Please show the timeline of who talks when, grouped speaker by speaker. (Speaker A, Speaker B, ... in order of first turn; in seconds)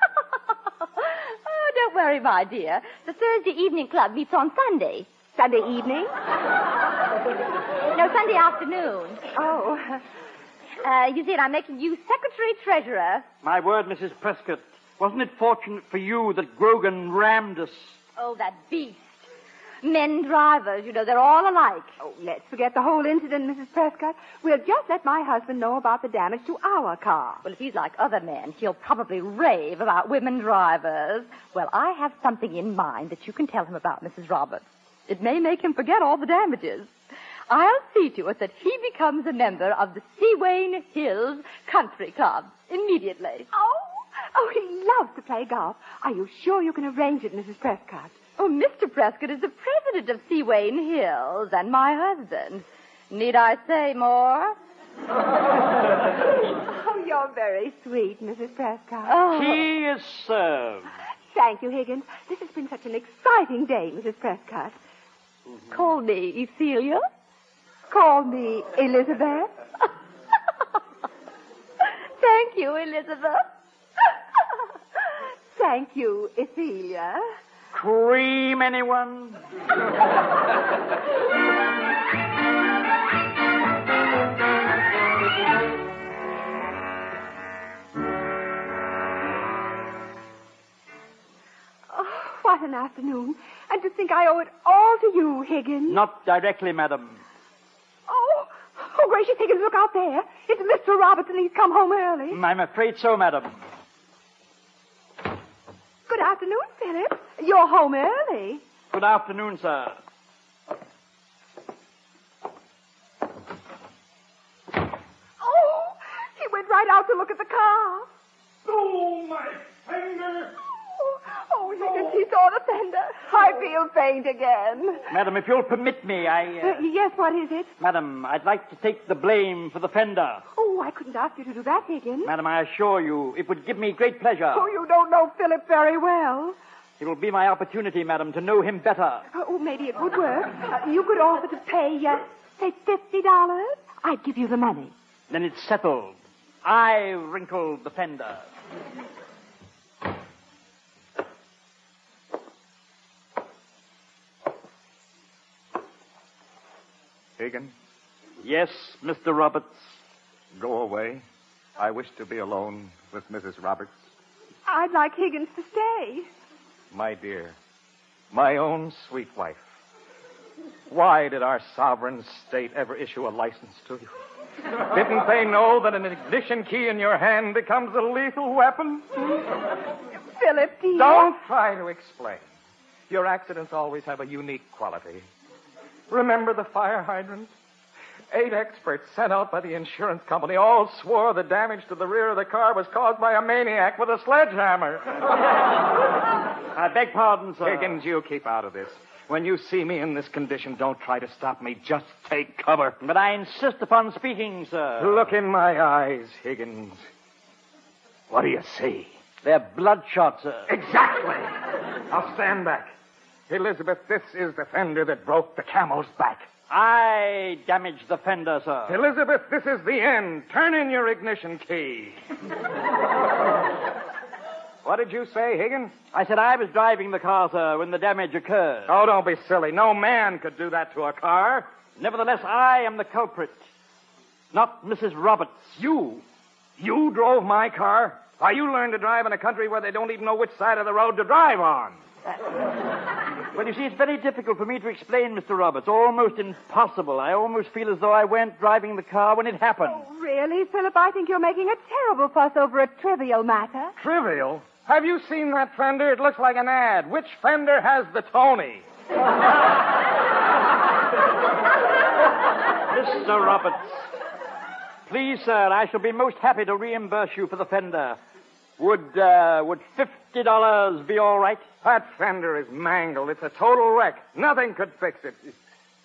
Speaker A: 0.9-5.1, 7.9-9.2, 10.8-13.2, 18.1-19.3, 19.8-21.9, 27.4-36.9, 37.5-43.5, 48.4-54.5, 59.1-59.6, 65.7-67.0, 72.2-73.4
Speaker B: 5.3-6.1, 9.3-10.0, 22.0-27.4, 43.5-48.1, 56.6-59.2, 61.3-64.7, 67.9-69.5, 75.5-77.2, 91.9-96.0, 98.1-102.4, 106.1-108.6, 115.4-118.1, 121.0-125.1, 126.6-127.7, 130.6-132.3, 134.5-136.6, 139.3-144.9, 164.7-166.3, 180.4-181.3, 249.9-253.9
Speaker C: 13.4-17.9, 59.3-60.9, 77.7-79.4, 95.9-97.2, 102.3-103.6, 108.9-110.0, 125.1-126.8, 127.8-130.4, 132.2-134.7, 137.0-139.2, 145.3-148.5, 158.4-159.9, 196.7-198.0, 203.0-205.3, 209.4-210.7, 216.7-218.9, 226.1-228.9, 232.0-233.6, 234.5-235.8, 243.5-250.0, 262.9-264.1, 265.1-268.2, 268.8-271.6
Speaker D: 118.7-120.5, 157.4-157.7, 160.5-161.2, 161.8-164.0, 166.9-167.6, 168.3-169.6, 170.9-174.1, 174.9-179.2, 180.9-182.4, 183.1-185.2, 186.1-187.5, 188.3-195.2, 197.6-202.9, 205.0-207.0, 208.3-209.1, 210.7-211.5, 212.1-212.9, 213.5-216.5, 218.9-222.2, 224.8-225.9, 228.9-231.7, 235.8-236.2, 236.8-242.0, 254.0-258.8, 271.8-275.6